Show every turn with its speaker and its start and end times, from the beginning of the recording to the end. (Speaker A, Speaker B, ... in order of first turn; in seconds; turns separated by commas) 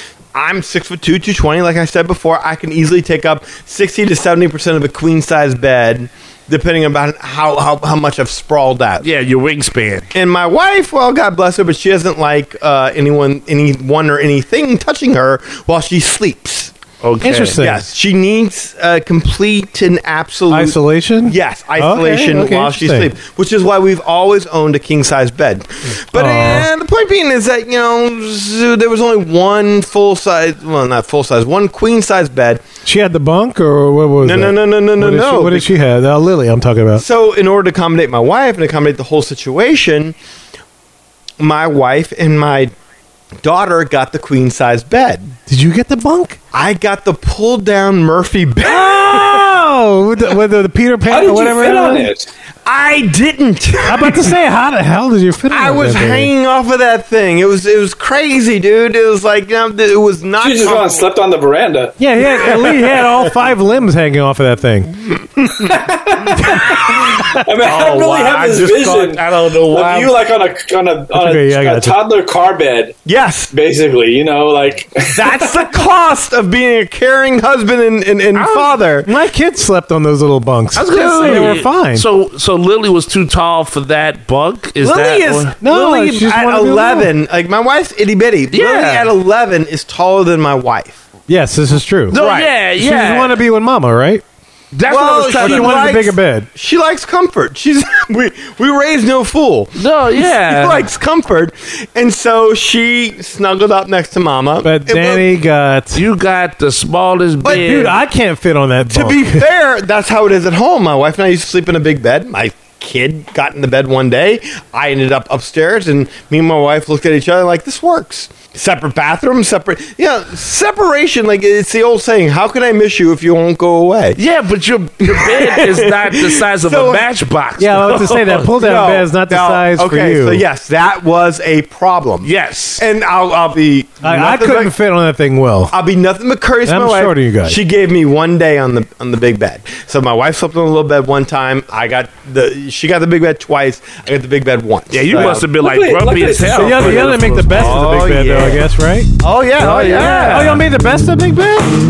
Speaker A: 0.3-9.1, Speaker B: 9.0-10.1, Speaker A: 10.1-16.7, Speaker B: 17.0-17.6, Speaker C: 17.2-17.8, Speaker A: 17.6-32.6, Speaker C: 20.5-23.1, Speaker C: 26.1-26.7, Speaker C: 32.8-37.0, Speaker A: 34.2-35.7, Speaker A: 37.0-40.1, Speaker A: 41.4-42.7, Speaker A: 43.4-45.3, Speaker C: 45.5-46.4, Speaker A: 46.5-49.5, Speaker C: 48.6-52.1, Speaker D: 51.1-52.3, Speaker A: 52.6-54.3, Speaker C: 53.9-56.3, Speaker A: 55.5-61.1, Speaker D: 60.4-62.0, Speaker C: 62.0-64.9, Speaker A: 62.2-63.3, Speaker D: 65.6-73.0, Speaker B: 67.6-70.2, Speaker C: 71.1-72.0, Speaker A: 73.0-73.5, Speaker D: 73.5-75.6, Speaker A: 75.0-79.1, Speaker B: 78.3-78.7, Speaker C: 79.0-82.0, Speaker B: 80.7-85.5, Speaker A: 80.9-81.6, Speaker A: 84.8-91.0, Speaker C: 85.6-87.1, Speaker B: 88.5-89.1, Speaker C: 91.3-92.2, Speaker A: 92.1-92.5, Speaker B: 92.1-93.4, Speaker C: 92.8-94.2, Speaker B: 94.7-95.9, Speaker A: 94.8-105.3, Speaker C: 95.4-96.5, Speaker B: 99.8-100.8, Speaker C: 104.6-106.0, Speaker B: 105.9-107.9, Speaker A: 107.4-107.9, Speaker C: 107.5-109.5, Speaker A: 108.9-124.2, Speaker B: 124.2-128.5, Speaker A: 125.0-127.1, Speaker C: 127.6-130.4, Speaker A: 128.5-134.7, Speaker B: 132.2-132.8, Speaker C: 134.0-135.7, Speaker A: 135.7-145.4, Speaker C: 136.7-137.6, Speaker B: 144.9-148.1, Speaker D: 145.2-147.2, Speaker C: 146.6-149.1, Speaker A: 147.5-148.6, Speaker A: 149.2-150.6, Speaker B: 149.6-150.6, Speaker C: 150.0-151.8